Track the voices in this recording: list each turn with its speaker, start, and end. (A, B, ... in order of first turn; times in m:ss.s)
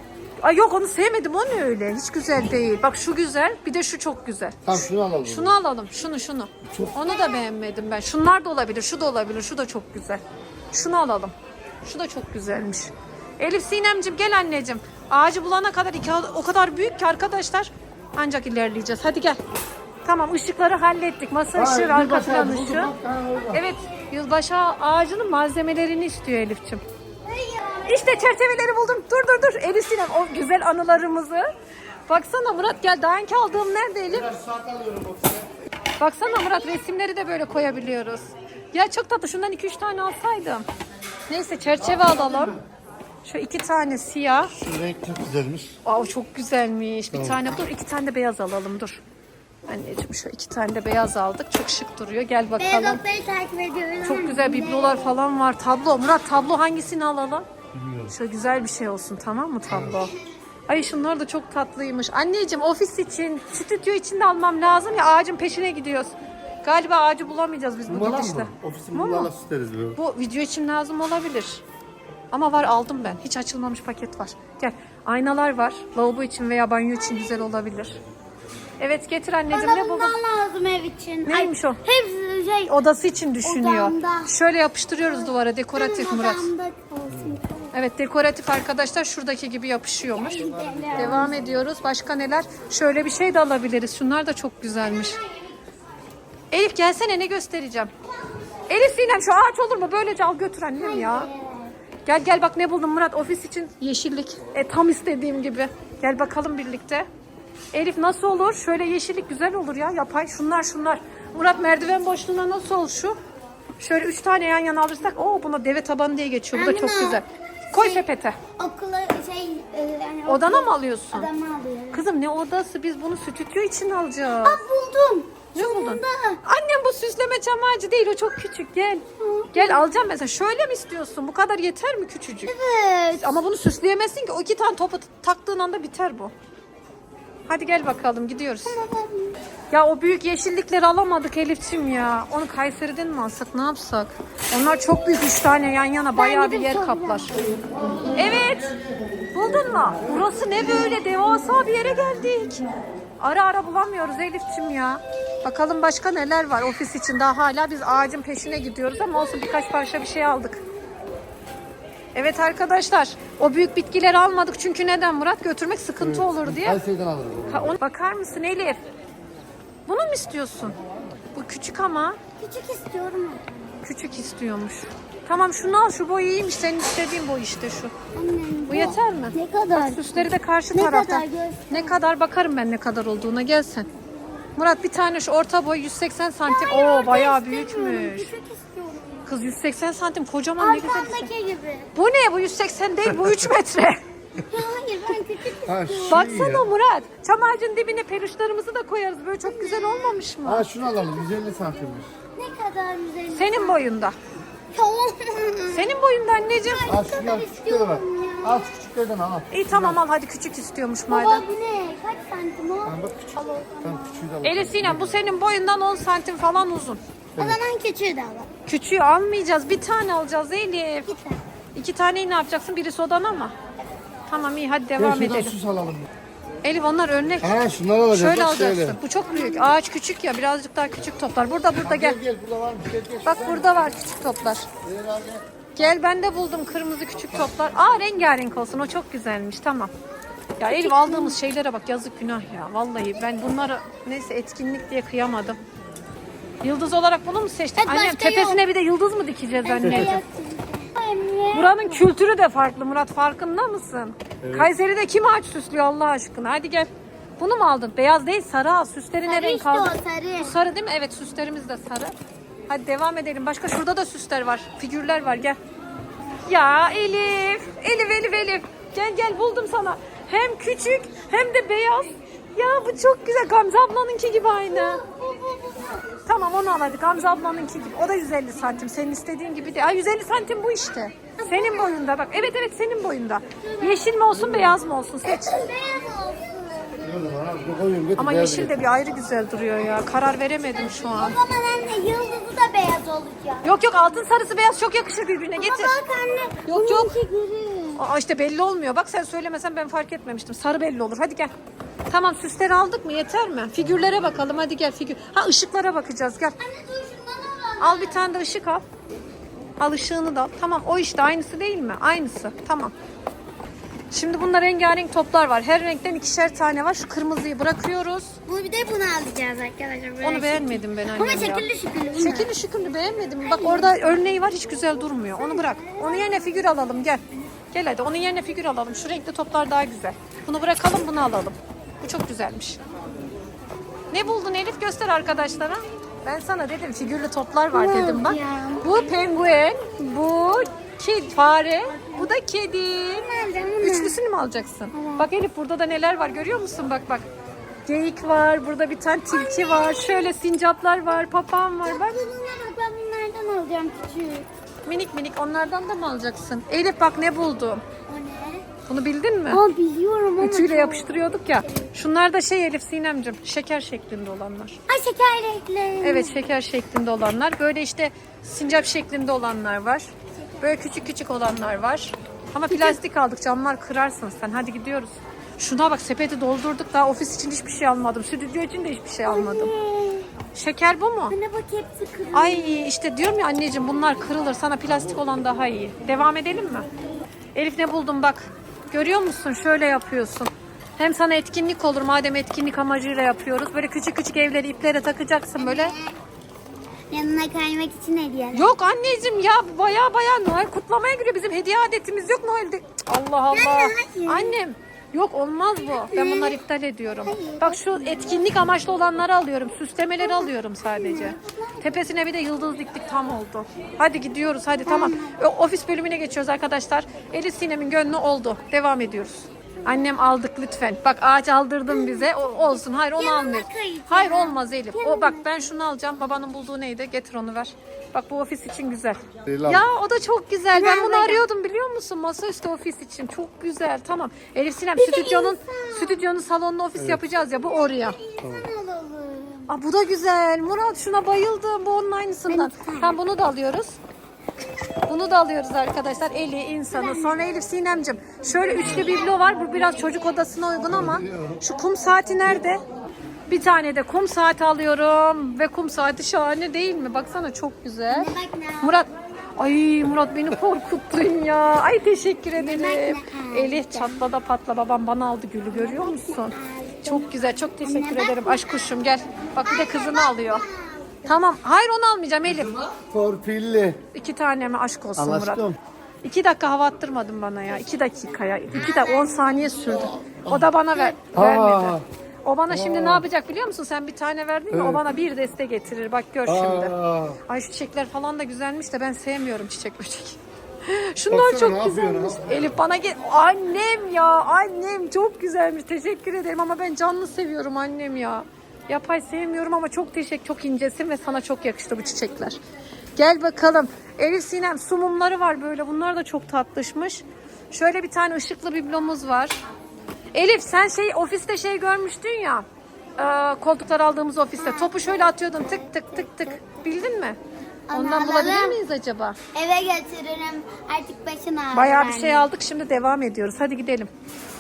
0:00.4-0:10.2 A
0:04.6-0:05.6 B
0:06.7-0:07.0 B
0:10.7-0:19.4 A
0:20.0-0:22.9 A
0:21.5-0:23.6 B
0:23.5-0:26.8 A
0:27.2-0:28.4 C
0:27.9-0:31.4 A
0:32.1-0:34.4 A
0:34.1-0:35.5 B
0:36.0-0:40.6 A
0:36.2-0:36.8 C
0:41.3-0:42.6 A
0:41.9-0:42.5 B
0:43.2-0:44.5 A
0:44.5-0:45.8 B
0:45.8-0:49.0 A
0:47.1-0:47.5 B
0:49.7-0:53.0 A
0:52.6-0:55.1 C
0:54.0-0:57.5 A
0:57.7-0:58.1 B
0:58.1-1:00.1 A
0:59.7-1:00.0 B
1:00.7-1:09.3 A
1:07.9-1:10.0 B
1:10.0-1:11.6 A
1:12.3-1:18.0 A
1:18.8-1:20.2 A
1:19.5-1:22.9 C
1:21.3-1:21.8 A
1:22.7-1:26.5 A
1:23.4-1:24.3 C
1:25.0-1:27.8 C
1:27.7-1:35.2 A
1:30.1-1:31.4 C
1:34.8-1:35.6 C
1:36.5-1:37.9 A
1:38.7-1:41.3 A
1:40.8-1:41.7 C
1:42.0-1:47.1 A
1:47.7-1:53.2 A
1:53.8-1:58.4 A
1:56.5-1:58.0 C
1:58.6-2:02.0 C
2:00.3-2:01.3 A
2:01.9-2:04.6 A
2:04.4-2:06.4 C
2:05.5-2:12.5 A
2:09.2-2:10.0 C
2:12.4-2:13.4 C
2:13.2-2:16.3 A
2:17.5-2:18.8 A
2:18.6-2:19.4 C
2:19.7-2:27.3 A
2:26.2-2:27.4 C
2:27.9-2:29.3 B
2:28.1-2:28.8 A
2:29.3-2:32.6 A
2:33.2-2:40.6 A
2:42.1-2:46.8 A
2:46.0-2:47.7 B
2:47.5-2:48.8 A
2:49.9-2:50.8 A
2:51.3-2:52.2 A
2:52.4-2:53.6 C
2:53.8-2:57.9 A
2:58.2-3:02.0 C
2:58.7-3:03.9 A
3:04.6-3:08.3 A
3:06.5-3:09.3 C
3:09.3-3:11.3 A
3:10.6-3:11.9 C
3:12.0-3:14.0 A
3:14.5-3:16.3 C
3:15.6-3:16.7 B
3:16.1-3:20.7 A
3:19.4-3:20.2 C
3:20.4-3:22.1 B
3:22.4-3:23.8 C
3:23.3-3:24.2 A
3:24.7-3:25.9 C
3:25.7-3:26.9 A
3:26.6-3:28.7 C
3:26.9-3:30.0 B
3:29.5-3:31.4 A
3:31.1-3:34.2 C
3:32.8-3:35.3 B
3:34.4-3:37.0 A
3:37.4-3:38.5 C
3:38.7-3:41.1 A
3:41.1-3:41.4 C
3:41.8-3:43.5 A
3:44.3-3:45.6 A
3:45.0-3:46.1 B
3:46.6-3:52.2 A
3:47.4-3:49.0 B
3:49.2-3:49.8 C
3:51.8-3:53.9 B
3:53.2-3:54.7 A
3:54.8-3:55.5 B
3:55.8-3:59.9 A
4:00.6-4:05.6 A
4:00.6-4:01.4 C
4:06.6-4:10.2 A
4:07.8-4:08.6 C
4:09.6-4:12.1 C
4:09.8-4:10.1 B
4:11.5-4:22.1 A
4:14.4-4:14.7 B
4:19.3-4:20.6 C
4:22.7-4:25.6 A
4:26.4-4:35.0 A
4:34.7-4:36.1 C
4:36.3-4:45.5 A
4:41.4-4:42.1 C
4:43.6-4:44.1 C
4:44.3-4:44.8 B
4:45.2-4:47.2 C
4:47.0-4:48.8 B
4:48.2-4:51.4 A
4:50.8-4:53.7 C
4:53.6-4:56.0 A
4:55.6-4:58.0 C
4:56.7-4:57.1 A
4:58.0-5:01.5 A
5:02.1-5:06.6 A
5:06.6-5:08.3 C
5:07.8-5:08.8 A
5:09.8-5:12.9 A
5:14.1-5:18.4 A
5:18.5-5:22.5 C
5:20.2-5:27.2 A
5:23.4-5:24.0 C
5:25.4-5:26.5 C
5:27.7-5:32.8 A
5:34.1-5:47.3 A
5:37.7-5:39.2 C
5:43.1-5:44.2 C
5:44.9-5:45.3 C
5:47.9-5:52.2 A
5:49.3-5:50.3 C
5:51.8-5:54.5 C
5:54.8-5:57.8 A
5:58.1-5:58.7 C
5:58.9-5:59.6 A
5:59.5-6:01.2 C
6:00.4-6:04.8 A
6:04.9-6:06.4 C
6:06.0-6:10.1 A
6:10.6-6:19.7 A
6:12.7-6:13.0 C
6:19.3-6:20.3 C
6:20.6-6:21.4 A
6:21.3-6:22.9 C
6:22.3-6:26.9 A
6:27.6-6:35.9 A
6:35.6-6:36.2 C
6:37.1-6:38.8 C
6:38.5-7:18.2 A
6:43.5-6:44.6 C
6:45.8-6:46.6 C
6:47.2-6:48.5 C
6:50.2-6:52.0 C
6:54.8-6:55.4 C
7:01.9-7:02.6 C
7:03.2-7:05.7 C
7:09.5-7:09.9 B
7:10.7-7:11.4 C
7:15.0-7:16.2 C
7:17.0-7:17.2 B
7:17.5-7:19.7 C
7:19.7-7:24.0 A
7:22.5-7:23.2 C
7:25.1-7:32.8 A
7:26.9-7:27.4 C
7:28.7-7:29.4 C
7:30.9-7:31.6 B
7:33.5-7:38.3 A
7:38.1-7:39.0 C
7:38.8-7:50.6 A
7:42.6-7:44.2 C
7:45.7-7:49.0 C
7:49.6-7:51.3 C
7:51.2-7:52.8 A
7:52.5-7:54.0 B
7:54.1-7:55.6 A
7:55.2-7:55.8 B
7:56.2-8:06.9 A
7:58.7-8:00.2 C
8:00.3-8:00.7 B
8:01.3-8:02.0 B
8:02.7-8:03.2 B
8:04.7-8:05.0 B
8:06.5-8:07.4 B
8:07.4-8:22.6 A
8:11.3-8:12.8 B
8:23.2-8:29.6 A
8:30.3-8:32.6 A
8:33.2-8:37.4 A
8:34.6-8:36.8 C
8:37.9-8:38.8 C
8:37.9-8:39.4 A
8:39.5-8:42.5 C
8:41.7-8:44.1 A